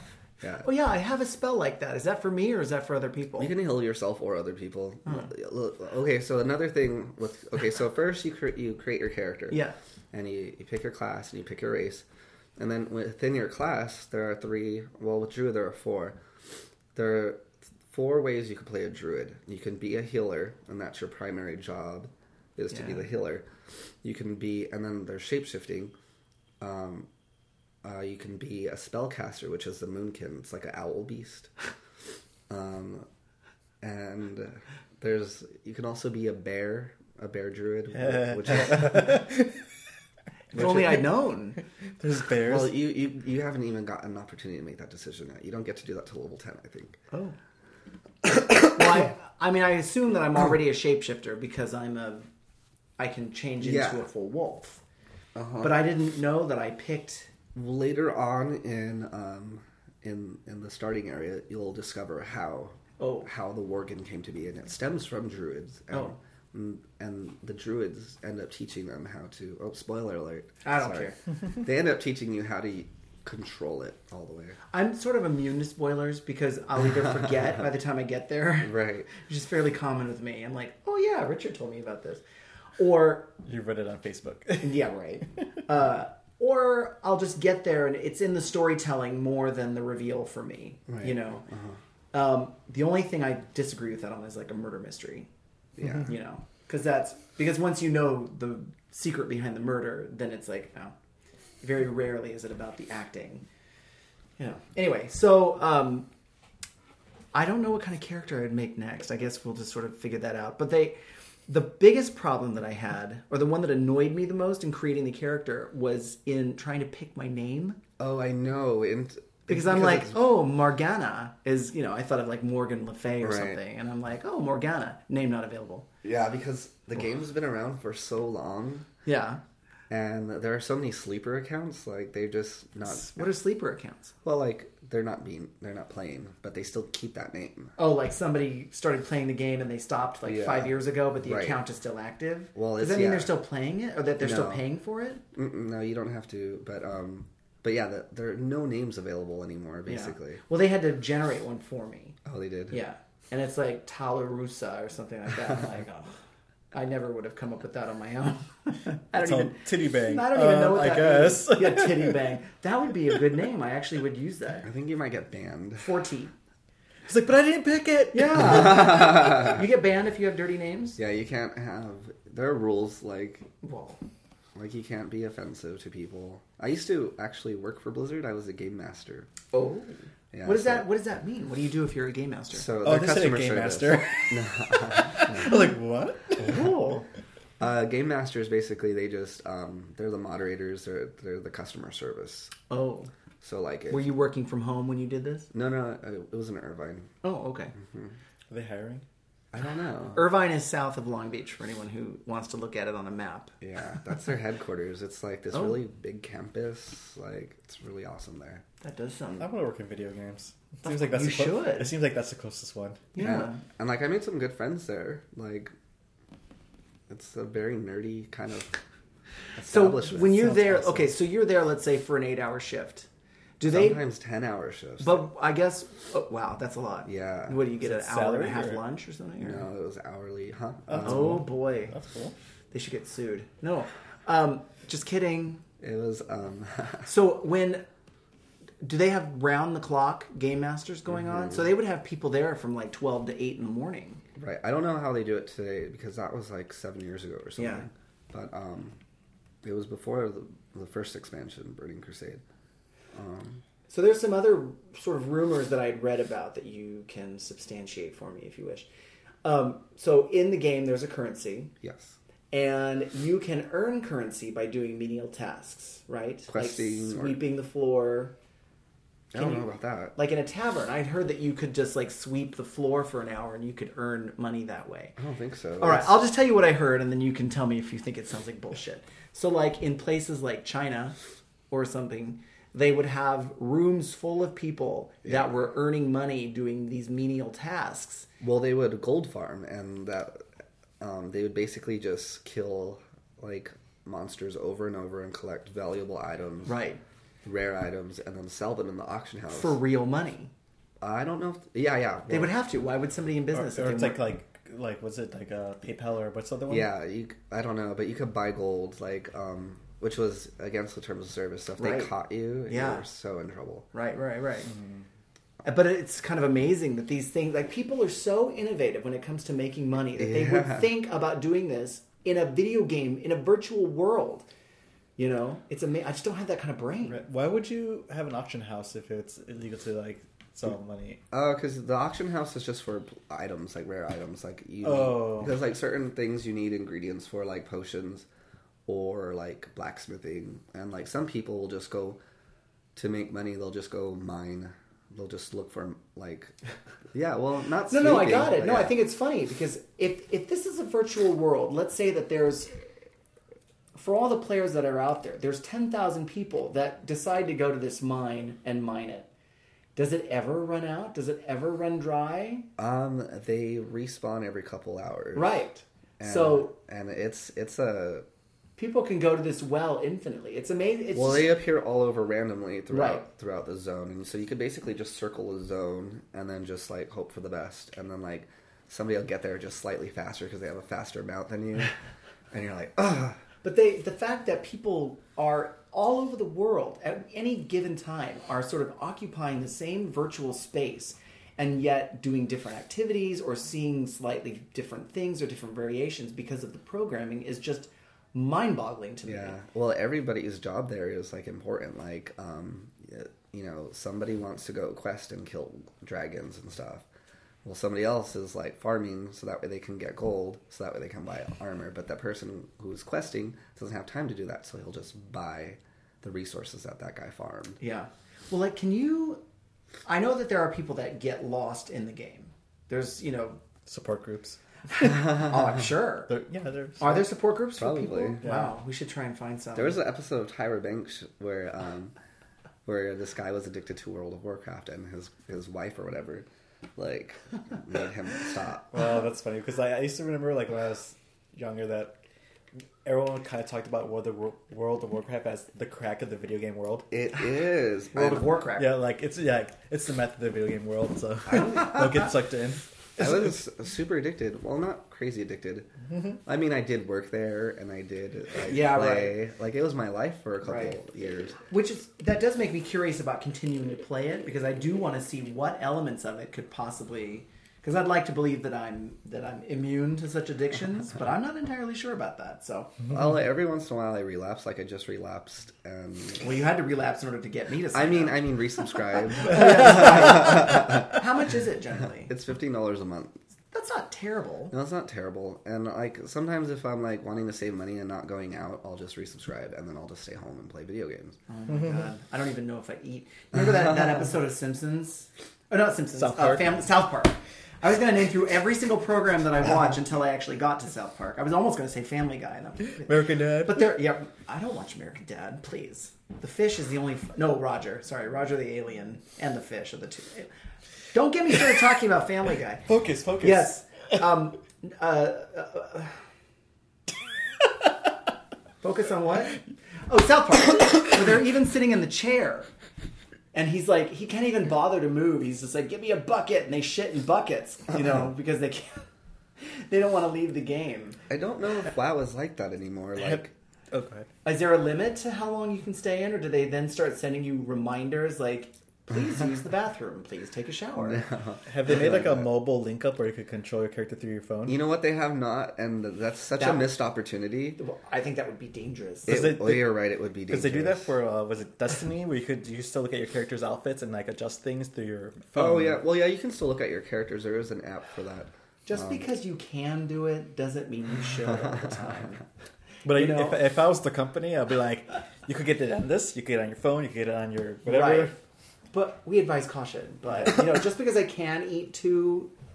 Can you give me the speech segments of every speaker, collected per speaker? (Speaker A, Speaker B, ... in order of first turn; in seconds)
Speaker A: 0.4-0.7, 3.4-9.6, 10.1-12.0, 12.6-16.2, 16.9-23.4, 24.0-25.9, 26.6-27.1, 27.8-31.5, 32.5-33.0, 33.8-39.2, 42.4-47.0, 53.6-54.0, 55.3-55.9, 57.5-74.6, 78.6-79.1, 90.9-91.8, 95.8-96.1, 118.0-120.1, 123.2-123.6, 126.0-128.9, 129.9-133.3, 134.2-137.7, 140.2-141.6, 142.5-143.3, 144.2-144.6, 145.3-150.4, 152.2-152.8, 164.6-165.9, 168.4-169.6, 171.0-173.5, 174.5-179.3, 180.3-180.8, 182.5-185.5, 187.6-192.5, 193.4-194.1, 195.5-197.1, 197.8-198.1, 199.5-200.3, 203.6-208.6, 213.2-215.7, 217.1-218.8, 219.6-221.1, 223.6-225.3, 227.1-227.6, 229.4-231.4, 235.8-237.1, 241.2-241.7, 244.3-249.0, 249.6-252.4, 253.1-253.6, 261.8-262.1, 266.5-267.4, 269.3-270.1, 275.2-276.1, 288.4-290.4, 291.0-296.8, 297.4-299.8, 301.0-302.5, 306.7-313.9, 320.1-320.9, 331.3-338.2, 338.9-342.2, 342.9-346.5, 347.1-348.9, 362.8-365.6, 366.2-368.2, 371.1-381.9, 382.5-383.4, 399.2-407.0, 407.6-417.8, 427.8-428.4, 429.7-432.1, 432.8-436.4, 437.0-438.9, 447.1-448.6, 451.5-452.2, 453.2-461.6, 473.1-476.4, 477.9-481.2, 482.3-483.3, 484.7-491.4, 531.3-533.5, 541.0-542.5, 544.6-547.8, 549.3-551.2, 555.5-559.2, 561.5-561.9
Speaker B: 0.6-3.5, 9.5-9.8, 22.7-23.0, 40.5-41.6, 48.7-52.3, 53.0-54.8, 55.6-57.3, 63.0-63.3, 70.6-71.2, 74.7-82.2, 82.8-83.3, 84.6-91.4, 92.1-95.3, 95.9-100.9, 101.6-103.4, 104.4-106.1, 107.3-111.0, 111.5-117.8, 119.5-125.9, 129.0-129.4, 132.8-134.1, 137.8-145.2, 149.9-152.2, 152.7-156.2, 156.7-164.7, 165.8-166.3, 168.1-171.0, 173.6-174.0, 179.5-182.7, 186.4-187.1, 192.7-193.1, 193.9-195.5, 197.2-197.7, 200.1-203.5, 205.5-205.8, 208.8-209.4, 210.8-211.9, 213.1-213.6, 219.7-223.1, 223.6-224.0, 225.0-229.7, 231.0-231.9, 232.7-235.6, 237.0-237.8, 238.8-244.2, 247.6-247.9, 253.9-258.9, 259.4-261.7, 262.5-268.3, 269.3-275.2, 275.8-281.1, 281.7-288.3, 296.6-297.0, 299.5-300.5, 302.3-304.2, 311.8-312.1, 312.7-313.0, 313.9-314.7, 315.6-324.5, 325.2-327.2, 347.9-352.8, 353.9-359.3, 359.9-362.7, 365.3-366.7, 368.8-371.5, 372.9-373.2, 383.6-399.6, 417.8-419.4, 420.1-423.6, 424.9-426.3, 427.0-430.0, 448.1-448.9, 458.7-459.4, 460.6-461.0, 461.6-472.9, 476.4-478.4, 479.4-482.3, 483.7-484.7, 491.5-510.5, 511.1-512.9, 513.4-516.2, 518.8-522.7, 523.5-529.0, 529.6-531.2, 534.4-541.2, 546.6-546.9, 547.8-549.3, 558.9-562.4, 563.1-563.6, 567.9-568.4, 568.9-572.5
Speaker C: 37.9-39.6, 40.6-41.0, 42.0-42.7, 83.4-84.9, 159.2-162.2, 167.1-168.7, 182.8-186.6, 198.5-199.0, 209.4-213.1, 227.8-228.8, 230.9-232.3, 303.5-306.9, 314.7-315.0, 327.1-331.2, 334.8-335.5, 423.9-424.6, 426.3-427.2, 428.4-428.7, 438.9-442.2, 443.0-447.1, 448.8-453.2, 496.1-496.8, 503.0-503.9, 512.9-513.7, 533.2-534.3, 541.7-544.8, 549.3-556.0, 563.0-568.4